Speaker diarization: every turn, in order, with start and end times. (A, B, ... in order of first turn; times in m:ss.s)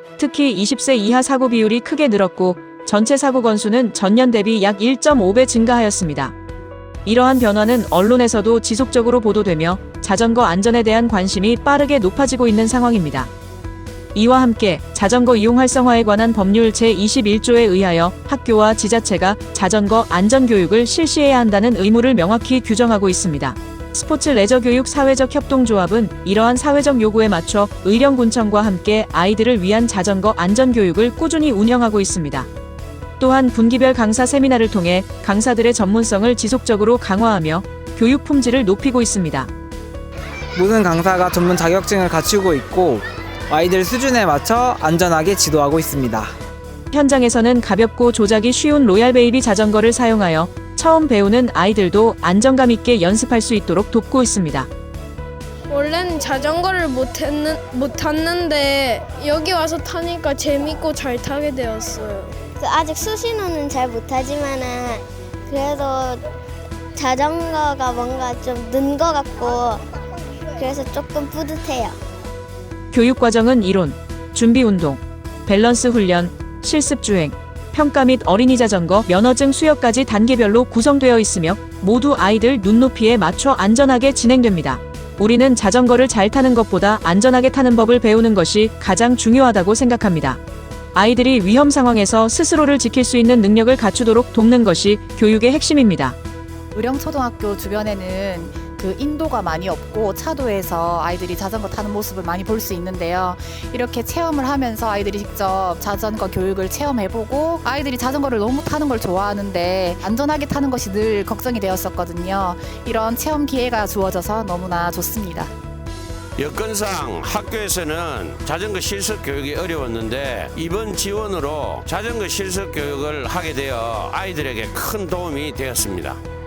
0:00.2-0:06.3 A
0:07.0-0:13.3 A
0:14.1-0:32.5 A
0:33.2-0:39.5 A
0:40.6-0:46.3 B
0:46.9-0:54.7 A
0:55.7-1:02.4 C
1:02.6-1:06.2 D
1:07.0-1:09.8 D
1:10.6-1:12.0 D
1:12.9-1:30.4 A
1:30.9-1:36.2 A
1:36.7-1:55.5 E
1:56.4-2:06.2 F